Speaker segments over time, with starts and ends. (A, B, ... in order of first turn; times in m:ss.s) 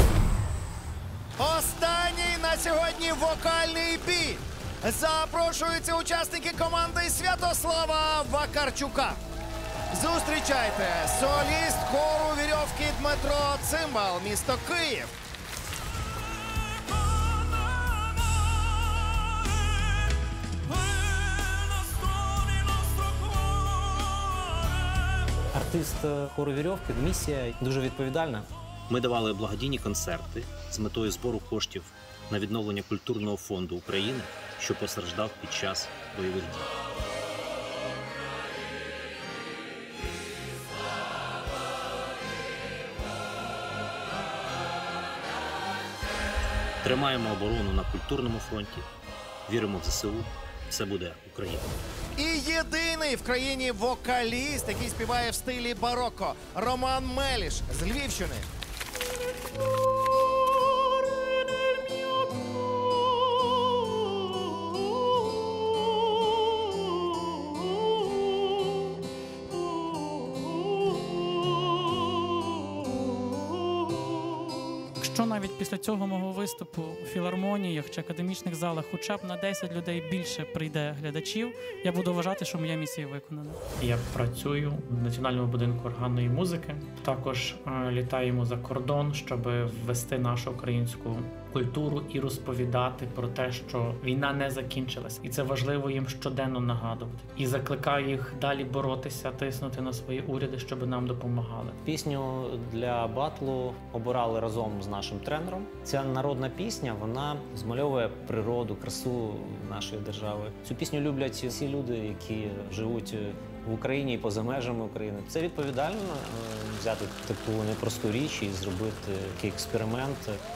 0:01.4-0:09.2 A
0:09.9-0:15.1 A
0:25.5-0:28.5 B
0:28.9-0:36.6 C
0:46.8-0:48.8 C
0:49.5-0:51.7 C
0:52.2-0:58.5 A
1:15.0-1:23.6 D
1:23.8-1:41.8 E
1:41.8-2:00.3 B